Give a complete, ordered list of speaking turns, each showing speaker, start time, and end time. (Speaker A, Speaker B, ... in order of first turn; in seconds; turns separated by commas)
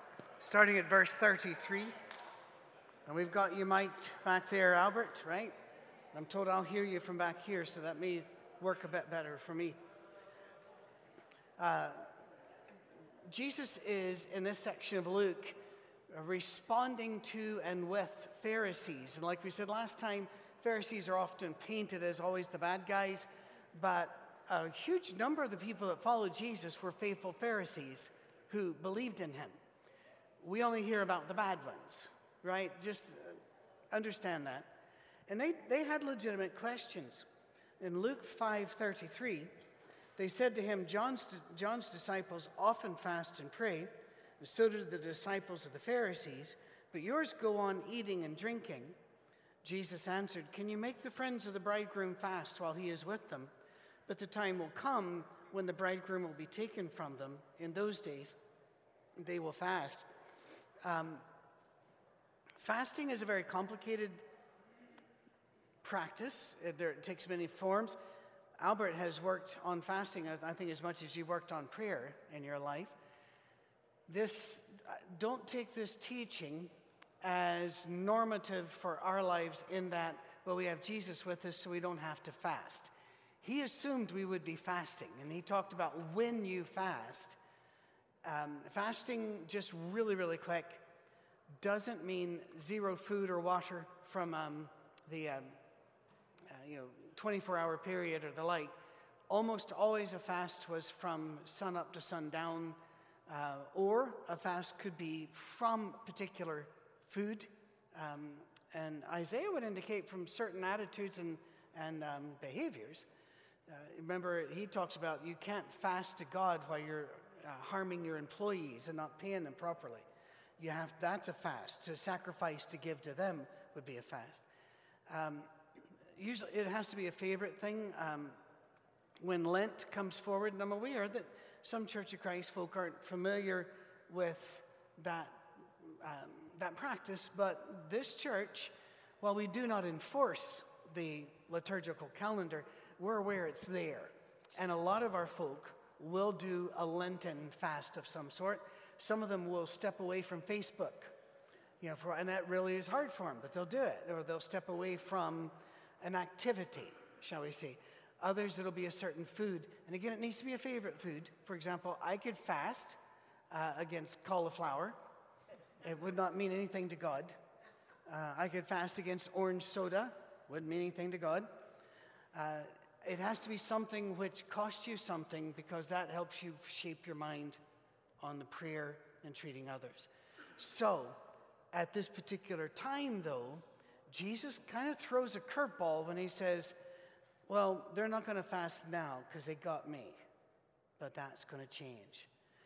Speaker A: 0.4-2.0, Speaker A: 3.0-5.5, Speaker A: 6.1-9.8, Speaker A: 11.6-12.2, Speaker A: 13.2-29.6, Speaker A: 30.4-34.7, Speaker A: 35.3-37.3, Speaker A: 37.8-39.5, Speaker A: 40.2-49.0, Speaker A: 49.6-53.5, Speaker A: 54.1-58.4, Speaker A: 59.1-60.1, Speaker A: 60.8-61.3, Speaker A: 62.6-64.2, Speaker A: 65.8-68.0, Speaker A: 68.6-72.9, Speaker A: 74.1-82.9, Speaker A: 83.4-87.4, Speaker A: 88.2-90.8, Speaker A: 91.5-95.6, Speaker A: 96.5-98.7, Speaker A: 99.3-113.0, Speaker A: 113.7-120.1, Speaker A: 120.6-124.5, Speaker A: 125.1-128.4, Speaker A: 129.2-151.2, Speaker A: 151.8-163.0, Speaker A: 163.5-165.0, Speaker A: 165.8-167.4, Speaker A: 168.1-171.5, Speaker A: 172.3-177.6, Speaker A: 178.2-186.8, Speaker A: 187.5-190.2, Speaker A: 191.0-192.3